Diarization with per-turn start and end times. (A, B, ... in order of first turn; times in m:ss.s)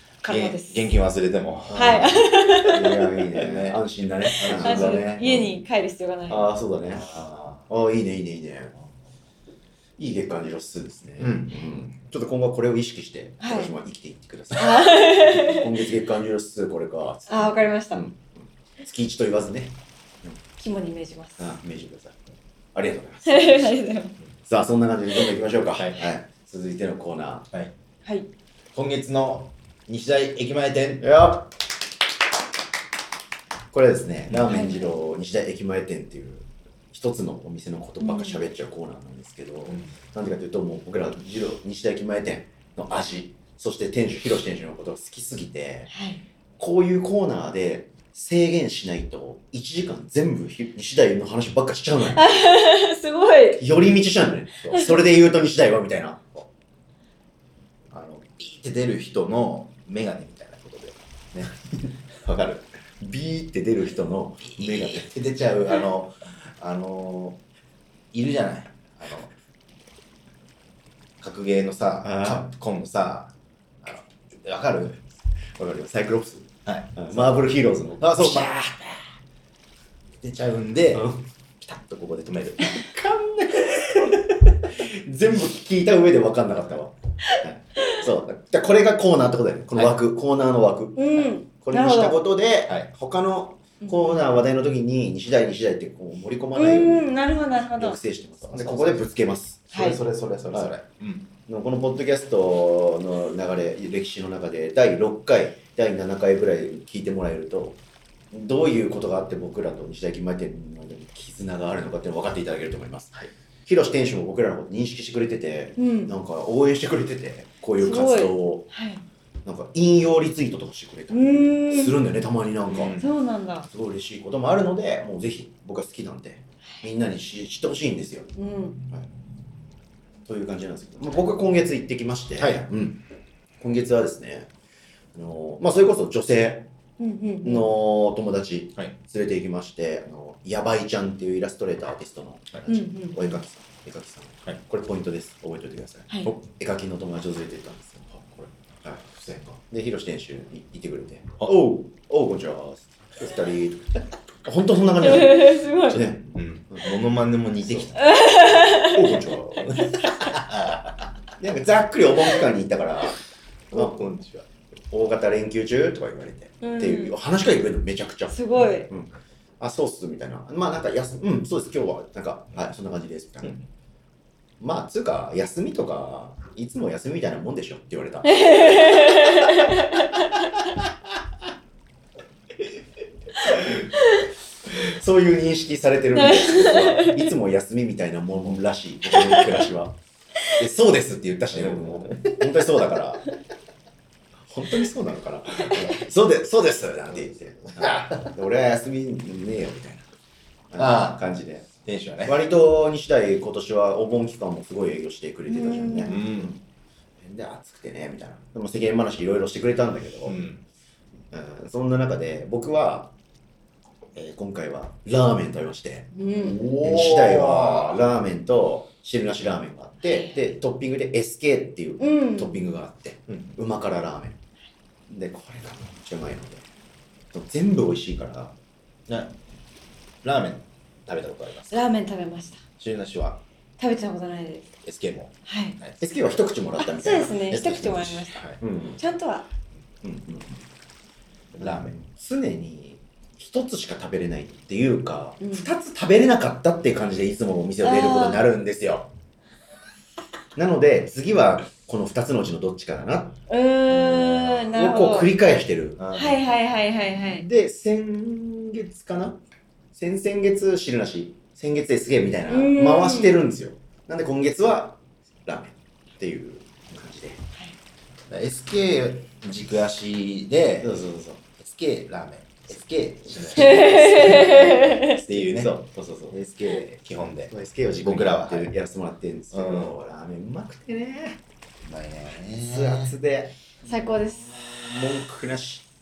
0:00.2-0:00.9 A
0:00.3-0:02.8 B
0:01.7-0:03.0 A
0:02.7-0:05.5 C
0:03.3-0:03.8 B
0:04.3-0:06.5 A
0:04.4-0:05.1 B
0:06.3-0:07.1 C
0:06.9-0:07.7 B
0:07.7-0:08.7 C
0:10.0-0:20.4 C
0:11.2-0:11.6 B
0:13.4-0:13.7 A
0:14.6-0:15.8 A
0:17.3-0:18.0 A
0:20.6-0:21.5 A
0:21.4-0:22.2 C
0:22.7-0:23.8 C
0:23.3-0:24.2 A
0:24.5-0:27.5 C
0:25.8-0:26.1 B
0:28.7-0:31.0 B
0:31.0-0:31.5 C
0:33.7-0:45.9 C
0:34.4-0:35.0 A
0:38.0-0:38.5 A
0:39.7-0:40.0 B
0:45.9-0:46.2 A
0:46.6-0:52.4 C
0:52.2-0:53.6 A
0:53.6-0:56.4 C
0:54.7-0:55.0 A
0:57.9-1:01.6 B
1:02.2-1:05.1 C
1:04.5-1:07.4 B
1:08.1-1:09.3 B
1:11.2-1:15.1 B
1:12.0-1:12.5 C
1:15.6-1:18.5 C
1:16.6-1:19.0 B
1:20.2-1:21.1 B
1:20.9-1:21.2 C
1:21.6-1:24.3 B
1:24.0-1:37.1 C
1:31.0-1:32.2 A
1:33.8-1:34.2 A
1:36.6-1:38.0 A
1:37.8-1:40.7 C
1:38.4-1:39.1 B
1:39.7-1:40.0 A
1:40.1-1:41.3 B
1:41.5-1:47.8 C
1:48.3-1:58.7 C
1:55.8-1:56.1 A
1:57.8-1:59.0 A
1:59.4-2:03.0 C
2:01.1-2:02.0 A
2:02.7-2:03.1 B
2:03.0-2:03.7 A
2:03.6-2:08.3 C
2:08.4-2:08.8 A
2:10.3-2:13.0 C
2:12.4-2:12.7 B
2:13.6-2:14.5 C
2:15.1-2:16.7 C
2:17.0-2:17.7 A
2:17.4-2:29.0 C
2:22.7-2:23.4 A
2:29.0-2:29.6 B
2:29.6-2:33.8 C
2:34.4-2:36.9 C
2:35.0-2:36.0 A
2:36.3-2:38.0 B
2:37.6-2:38.0 C
2:38.0-2:39.2 A
2:38.8-2:39.9 C
2:39.6-2:41.1 B
2:41.4-2:43.2 C
2:43.7-2:44.5 B
2:43.7-2:44.0 C
2:44.9-2:53.6 C
2:46.6-2:47.1 A
2:48.3-2:48.9 A
2:54.6-2:59.4 C
2:58.3-3:00.3 A
3:04.7-3:13.3 C
3:06.2-3:07.3 A
3:09.1-3:09.7 A
3:11.5-3:12.9 B
3:14.5-3:20.1 C
3:17.8-3:18.2 B
3:20.7-3:21.7 C
3:20.8-3:21.2 B
3:21.8-3:22.4 B
3:22.2-3:26.6 C
3:25.5-3:26.2 A
3:26.0-3:26.6 B
3:27.2-3:30.4 C
3:30.2-3:30.6 B
3:31.3-3:33.1 C
3:34.2-3:44.4 C
3:36.1-3:36.7 A
3:36.4-3:38.0 B
3:40.0-3:40.4 A
3:42.0-3:42.6 A
3:45.1-3:46.6 C
3:47.3-3:48.6 C
3:49.1-3:49.4 B
3:50.2-3:51.8 B
3:51.7-3:52.6 A
3:52.8-3:53.4 B
3:53.8-3:54.8 A
3:54.8-3:56.0 B
3:55.5-3:55.8 A
3:56.0-3:57.4 C
3:56.8-3:59.5 A
3:57.5-3:58.6 B
3:58.6-3:59.0 C
4:00.0-4:00.6 C
4:01.5-4:09.1 C
4:01.6-4:02.0 B
4:05.4-4:05.7 A
4:07.8-4:08.5 A
4:10.6-4:13.4 C
4:13.5-4:15.3 A
4:13.9-4:14.7 B
4:14.7-4:16.0 C
4:16.0-4:16.6 B
4:16.1-4:17.4 A
4:17.2-4:19.4 C
4:20.0-4:27.4 C
4:22.5-4:23.4 A
4:28.3-4:31.0 B
4:30.8-4:31.4 C
4:31.6-4:35.8 B
4:33.5-4:35.2 A
4:35.3-4:36.8 C
4:36.3-4:38.8 B
4:37.5-4:41.4 C
4:39.5-4:40.0 B
4:41.8-4:43.2 B
4:42.6-4:45.9 C
4:43.9-4:44.6 A